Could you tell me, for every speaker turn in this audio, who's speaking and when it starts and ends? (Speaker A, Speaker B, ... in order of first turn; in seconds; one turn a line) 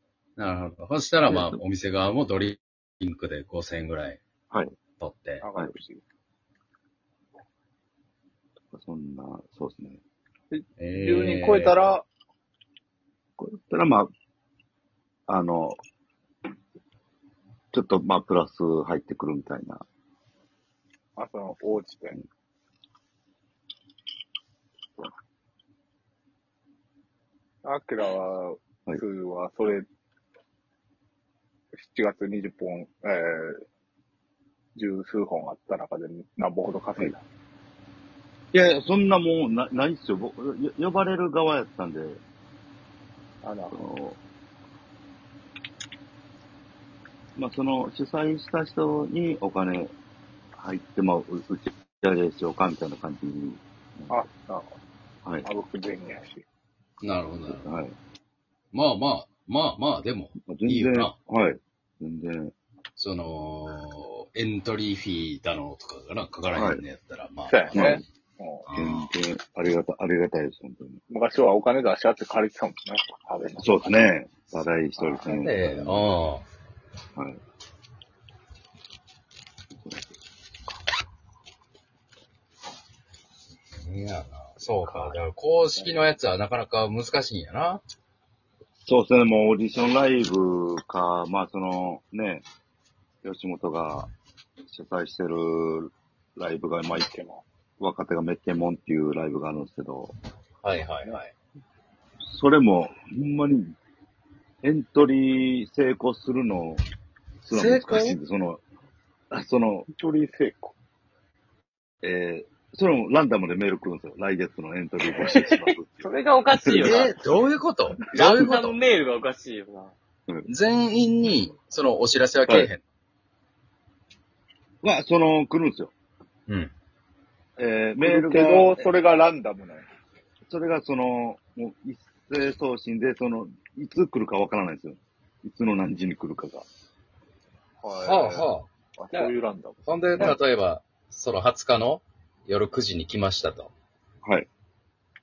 Speaker A: 0.4-4.2
Speaker B: 1.3-1.6
Speaker A: 5.0-5.5
Speaker C: 5.4-6.0
Speaker B: 8.7-10.0
Speaker C: 10.5-12.1
Speaker A: 10.8-11.9
Speaker B: 13.4-14.1
Speaker B: 15.3-15.8
Speaker B: 17.7-19.9
Speaker C: 21.2-22.2
Speaker C: 27.6-29.9
Speaker C: 31.7-33.6
Speaker C: 34.8-37.2
Speaker B: 38.5-42.2
Speaker C: 43.4-43.9
Speaker B: 43.7-44.2
Speaker B: 47.4-49.9
Speaker B: 50.5-54.2
Speaker C: 54.1-54.8
Speaker C: 55.4-56.4
Speaker A: 57.0-57.6
Speaker B: 57.5-58.0
Speaker A: 58.7-61.1
Speaker B: 60.4-62.5
Speaker A: 63.0-68.0
Speaker B: 66.5-66.8
Speaker C: 67.5-68.7
Speaker B: 67.7-68.0
Speaker A: 68.7-69.1
Speaker B: 68.7-71.0
Speaker C: 71.1-74.1
Speaker B: 73.6-76.1
Speaker C: 75.0-75.4
Speaker A: 75.3-76.5
Speaker B: 79.7-80.1
Speaker A: 83.8-87.8
Speaker C: 84.9-85.2
Speaker C: 85.7-86.0
Speaker B: 88.9-92.5
Speaker B: 93.2-94.1
Speaker B: 94.7-97.1
Speaker C: 96.9-97.4
Speaker B: 97.8-100.2
Speaker A: 100.6-101.3
Speaker B: 102.2-103.7
Speaker B: 104.6-106.8
Speaker B: 107.5-108.6
Speaker A: 107.5-108.2
Speaker B: 109.3-109.9
Speaker C: 109.9-110.8
Speaker B: 112.0-117.1
Speaker D: 115.1-117.2
Speaker A: 116.8-118.8
Speaker D: 118.1-119.9
Speaker A: 120.5-122.8
Speaker B: 124.8-125.9
Speaker A: 126.5-126.7
Speaker B: 127.6-128.9
Speaker C: 128.0-129.9
Speaker B: 130.5-136.7
Speaker C: 137.8-140.3
Speaker A: 137.9-138.7
Speaker A: 139.9-143.7